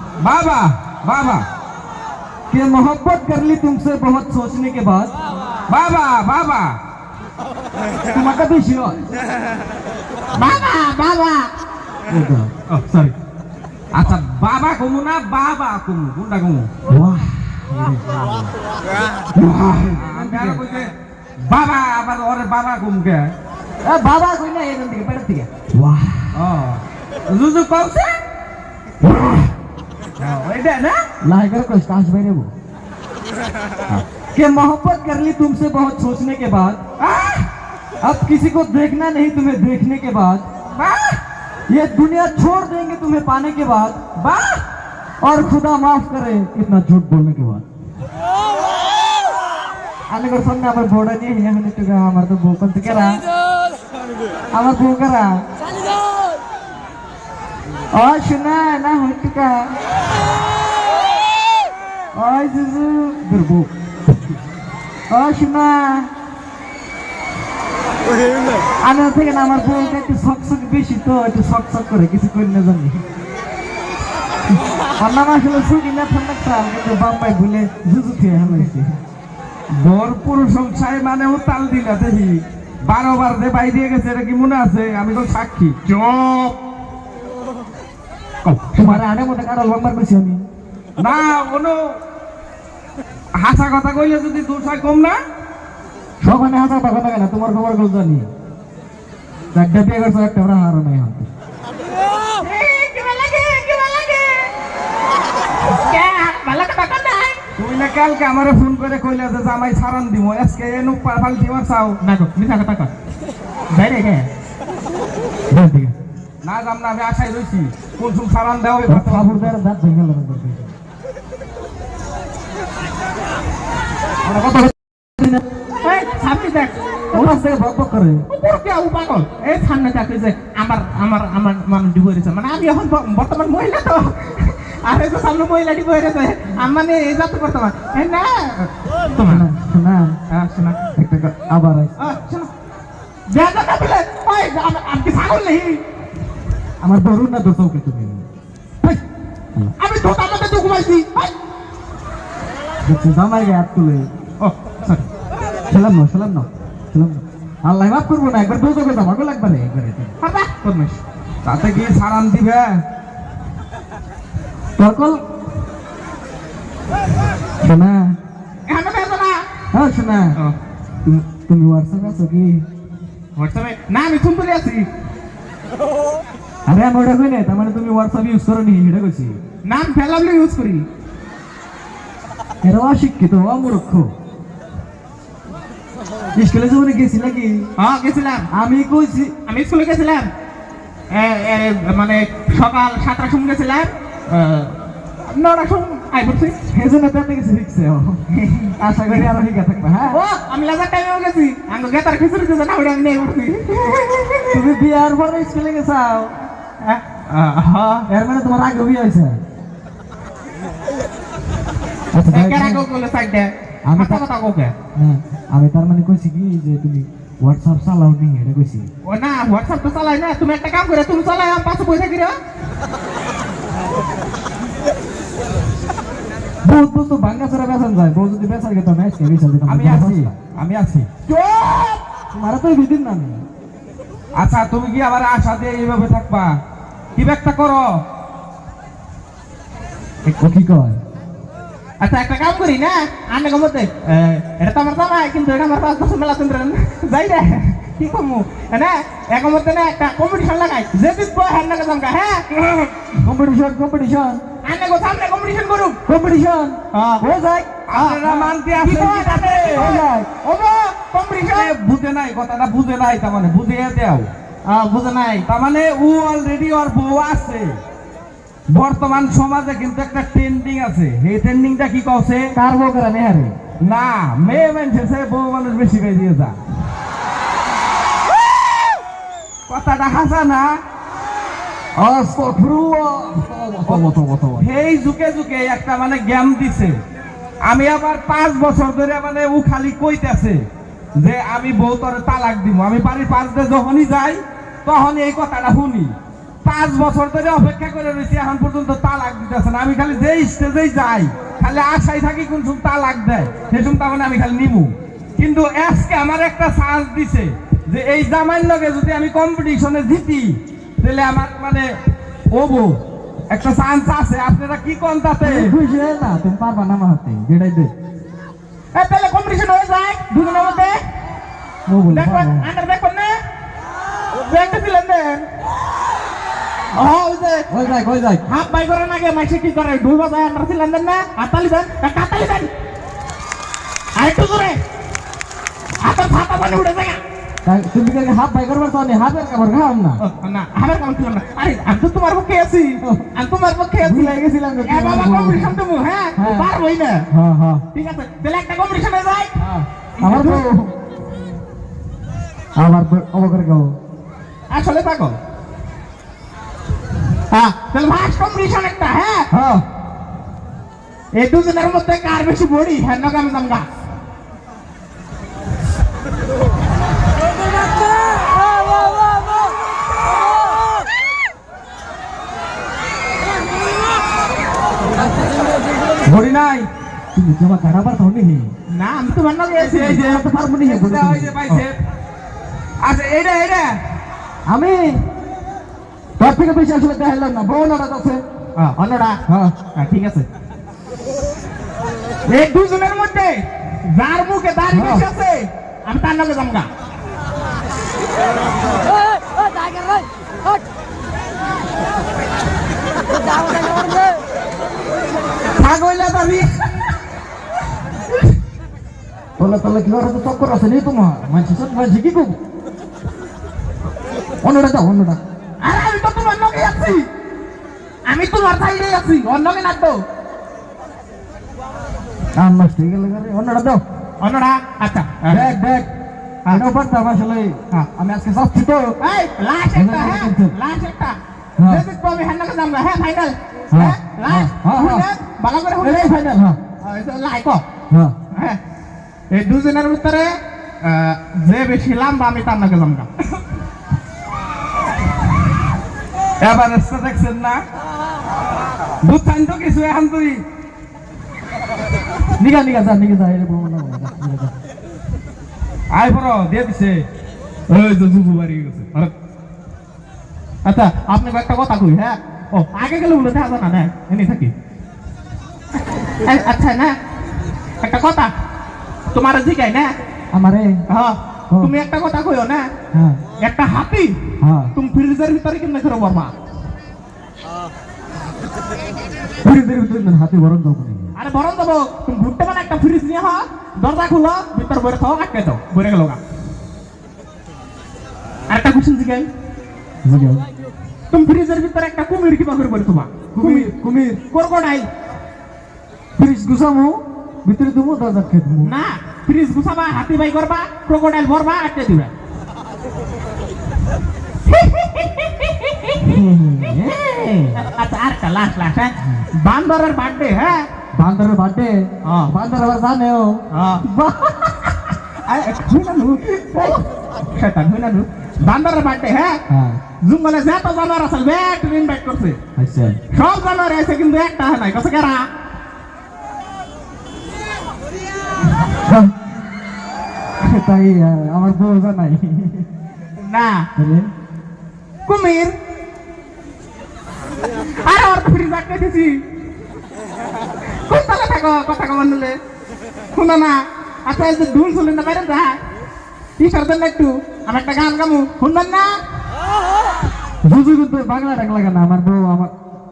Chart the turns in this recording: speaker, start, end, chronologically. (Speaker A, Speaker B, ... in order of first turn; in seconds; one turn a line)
Speaker A: 0.2-1.4
Speaker B: 2.5-5.1
Speaker A: 5.7-6.7
Speaker B: 8.1-9.0
Speaker C: 10.3-11.5
Speaker B: 12.1-12.5
Speaker A: 12.7-13.1
Speaker A: 13.9-16.7
Speaker B: 16.9-18.5
Speaker B: 19.4-20.6
Speaker A: 19.9-23.3
Speaker B: 23.8-26.3
Speaker A: 26.3-28.2
Speaker A: 30.2-31.0
Speaker B: 31.2-32.5
Speaker B: 34.3-36.8
Speaker A: 37.0-37.5
Speaker B: 38.0-40.5
Speaker A: 40.8-41.2
Speaker B: 41.7-44.0
Speaker A: 44.2-44.6
Speaker B: 45.2-47.6
Speaker B: 50.1-53.2
Speaker B: 54.5-55.3
Speaker B: 57.9-59.7
Speaker B: 62.2-63.7
Speaker B: 65.1-66.1
Speaker B: 68.8-73.0
Speaker B: 75.0-78.9
Speaker A: 79.7-85.8
Speaker C: 85.8-86.6
Speaker C: 88.5-88.9
Speaker A: 88.5-88.8
Speaker B: 88.8-90.4
Speaker A: 91.0-91.8
Speaker A: 93.4-95.2
Speaker B: 96.2-98.3
Speaker B: 99.5-101.3
Speaker C: 102.4-104.5
Speaker C: 105.7-107.4
Speaker A: 107.6-112.0
Speaker C: 112.0-112.9
Speaker C: 113.7-114.3
Speaker B: 115.5-116.0
Speaker A: 116.4-119.6
Speaker B: 118.9-120.7
Speaker B: 124.2-125.4
Speaker C: 125.8-127.4
Speaker B: 127.1-128.2
Speaker C: 128.3-139.5
Speaker B: 139.2-140.2
Speaker C: 140.3-140.8
Speaker B: 141.0-141.9
Speaker C: 142.0-142.5
Speaker C: 143.3-145.8
Speaker B: 146.8-148.2
Speaker C: 149.8-151.3
Speaker B: 152.8-154.1
Speaker C: 154.4-155.1
Speaker B: 155.7-160.1
Speaker C: 160.2-161.0
Speaker A: 161.4-162.8
Speaker B: 164.8-165.2
Speaker B: 167.6-168.1
Speaker C: 168.7-169.4
Speaker B: 169.7-170.3
Speaker B: 171.0-172.6
Speaker C: 173.3-174.9
Speaker B: 176.7-179.4
Speaker C: 179.7-180.8
Speaker B: 182.6-184.1
Speaker B: 186.4-187.7
Speaker C: 187.8-188.5
Speaker B: 188.5-189.3
Speaker C: 189.5-190.3
Speaker C: 191.1-194.8
Speaker C: 195.3-196.6
Speaker B: 196.7-198.2
Speaker C: 198.3-199.3
Speaker B: 198.8-200.2
Speaker C: 200.1-204.5
Speaker B: 204.5-206.5
Speaker C: 206.8-208.1
Speaker B: 208.1-209.4
Speaker B: 212.1-212.8
Speaker C: 212.3-214.7
Speaker B: 213.9-214.2
Speaker B: 215.0-218.9
Speaker C: 219.0-222.3
Speaker B: 226.6-230.3
Speaker A: 229.7-231.1
Speaker C: 231.4-231.7
Speaker B: 232.3-233.4
Speaker A: 234.3-236.5
Speaker A: 237.2-237.9
Speaker B: 240.2-241.0
Speaker C: 242.0-252.5
Speaker B: 253.2-254.4
Speaker C: 254.6-256.0
Speaker B: 256.1-257.7
Speaker C: 256.9-257.2
Speaker A: 257.9-260.0
Speaker C: 257.9-261.7
Speaker B: 259.7-260.3
Speaker A: 261.4-264.3
Speaker C: 264.6-265.4
Speaker A: 265.4-267.8
Speaker A: 268.7-272.5
Speaker B: 272.5-273.6
Speaker A: 273.8-276.5
Speaker A: 279.7-280.7
Speaker B: 282.0-284.7
Speaker A: 284.6-287.0
Speaker A: 287.6-290.6
Speaker A: 291.1-296.1
Speaker A: 296.6-311.9
Speaker A: 312.5-313.0
Speaker A: 313.5-315.7
Speaker B: 315.4-317.9
Speaker C: 318.9-321.0
Speaker B: 321.9-322.7
Speaker C: 322.1-323.4
Speaker C: 324.5-325.4
Speaker C: 326.9-327.7
Speaker B: 327.7-328.4
Speaker C: 328.4-332.7
Speaker C: 334.1-334.8
Speaker C: 336.0-337.2
Speaker B: 337.6-340.2
Speaker C: 340.2-347.2
Speaker B: 344.0-345.7
Speaker B: 346.4-346.7
Speaker B: 347.3-347.8
Speaker C: 347.9-349.6
Speaker B: 349.6-350.9
Speaker C: 350.2-350.6
Speaker B: 352.8-353.9
Speaker C: 354.7-355.4
Speaker C: 357.5-359.5
Speaker B: 359.5-359.8
Speaker C: 361.3-363.9
Speaker A: 376.2-376.9
Speaker B: 377.3-378.7
Speaker C: 378.9-380.3
Speaker A: 379.8-382.0
Speaker B: 380.0-381.6
Speaker A: 383.0-384.0
Speaker B: 384.7-385.2
Speaker B: 386.4-388.4
Speaker C: 388.8-389.4
Speaker B: 389.5-389.7
Speaker C: 389.9-390.5
Speaker C: 392.5-396.9
Speaker B: 394.9-395.2
Speaker C: 405.8-406.6
Speaker A: 405.9-406.6
Speaker B: 409.6-412.6
Speaker B: 414.6-415.4
Speaker C: 415.8-417.3
Speaker C: 418.2-420.2
Speaker B: 422.6-424.0
Speaker C: 424.4-425.8
Speaker B: 425.5-426.1
Speaker B: 426.7-429.2
Speaker C: 429.2-436.5
Speaker B: 429.9-430.7
Speaker B: 431.8-432.0
Speaker B: 433.9-435.3
Speaker B: 436.0-436.8
Speaker C: 437.0-437.8
Speaker B: 438.1-438.3
Speaker C: 438.5-438.8
Speaker C: 439.5-443.5
Speaker A: 446.6-447.8
Speaker A: 449.2-450.6
Speaker B: 452.6-454.7
Speaker A: 456.1-457.2
Speaker A: 457.9-459.3
Speaker C: 460.8-464.7
Speaker C: 466.4-467.2
Speaker C: 468.0-468.5
Speaker C: 469.3-470.1
Speaker B: 470.5-470.9
Speaker C: 471.1-472.9
Speaker B: 473.1-473.4
Speaker C: 473.6-474.4
Speaker B: 474.6-474.9
Speaker C: 474.9-476.5
Speaker B: 479.6-481.3
Speaker C: 481.4-486.4
Speaker C: 488.7-489.5
Speaker B: 490.2-490.6
Speaker C: 491.3-493.9
Speaker B: 493.5-494.4
Speaker C: 494.5-495.1
Speaker B: 496.4-498.9
Speaker C: 498.8-502.3
Speaker C: 504.6-506.2
Speaker B: 506.2-507.8
Speaker C: 507.7-510.9
Speaker B: 511.1-514.9
Speaker C: 512.2-512.5
Speaker C: 513.7-514.0
Speaker C: 515.4-519.6
Speaker B: 519.7-520.0
Speaker C: 520.2-522.6
Speaker B: 522.8-523.2
Speaker C: 523.3-525.5
Speaker B: 529.0-529.3
Speaker B: 530.6-532.9
Speaker C: 533.4-533.9
Speaker B: 534.0-534.3
Speaker C: 535.2-535.8
Speaker C: 538.0-539.4
Speaker C: 541.0-542.6
Speaker C: 543.3-543.7
Speaker C: 544.3-545.8
Speaker C: 546.6-549.1
Speaker B: 550.6-552.7